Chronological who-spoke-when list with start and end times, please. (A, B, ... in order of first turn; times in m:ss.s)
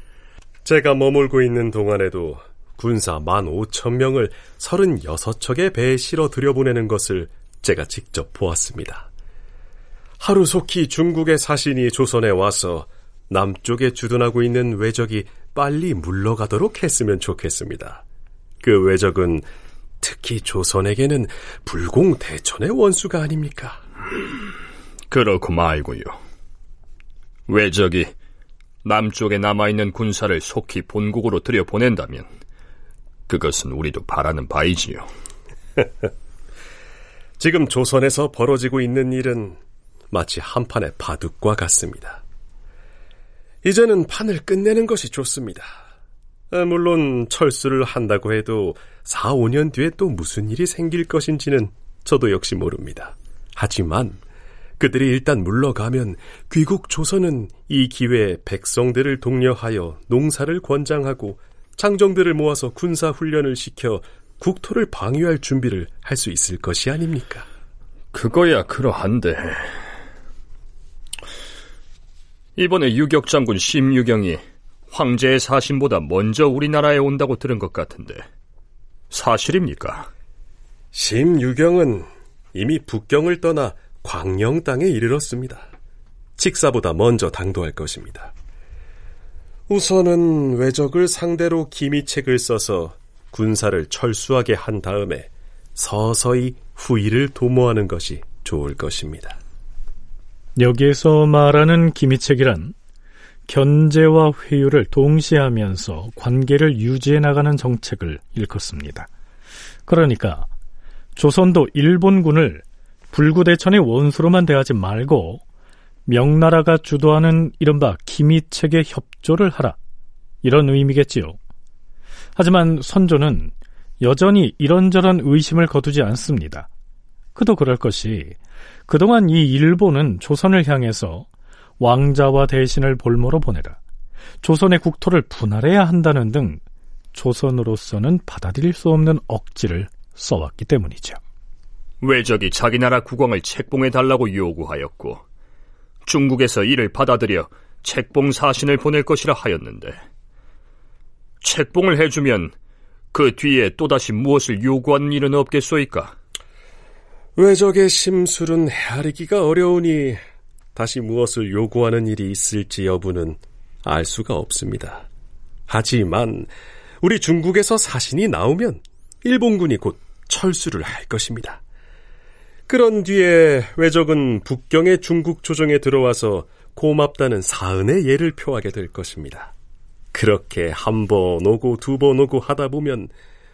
0:00.6-0:09.1 A
0:10.2-0:18.0 A
0:18.6-0:19.5 A
0:20.0-0:23.8 A
0:25.1-0:26.2 B
0:27.5-0:28.1 B
0:28.8-0:32.3 B
0:33.3-0:35.1 B
0:37.4-0:39.6 A
0:40.1-0:42.2 A
0:43.6-0:45.7 A
0:46.5-0:54.2 A
0:54.8-1:07.5 A
1:08.1-1:09.6 B
1:12.6-1:18.2 B
1:19.1-1:20.1 B
1:20.9-1:25.7 A
1:26.4-1:28.3 A
1:29.7-1:39.4 A
1:40.6-1:42.7 C
1:43.5-1:49.1 C
1:49.9-1:50.5 C
1:51.2-1:55.4 C
1:56.1-1:59.8 C
2:00.4-2:01.4 C
2:02.4-2:06.7 C
2:07.4-2:08.4 C
2:08.9-2:11.3 C
2:11.8-2:13.8 C
2:14.4-2:16.6 C
2:17.1-2:21.2 C
2:22.0-2:25.2 B
2:26.0-2:30.0 B
2:31.4-2:32.5 B
2:33.1-2:36.1 B
2:37.4-2:40.2 A
2:40.8-2:45.1 A
2:45.7-2:46.5 A
2:47.0-2:51.6 A
2:52.7-2:59.5 A
3:00.1-3:03.1 A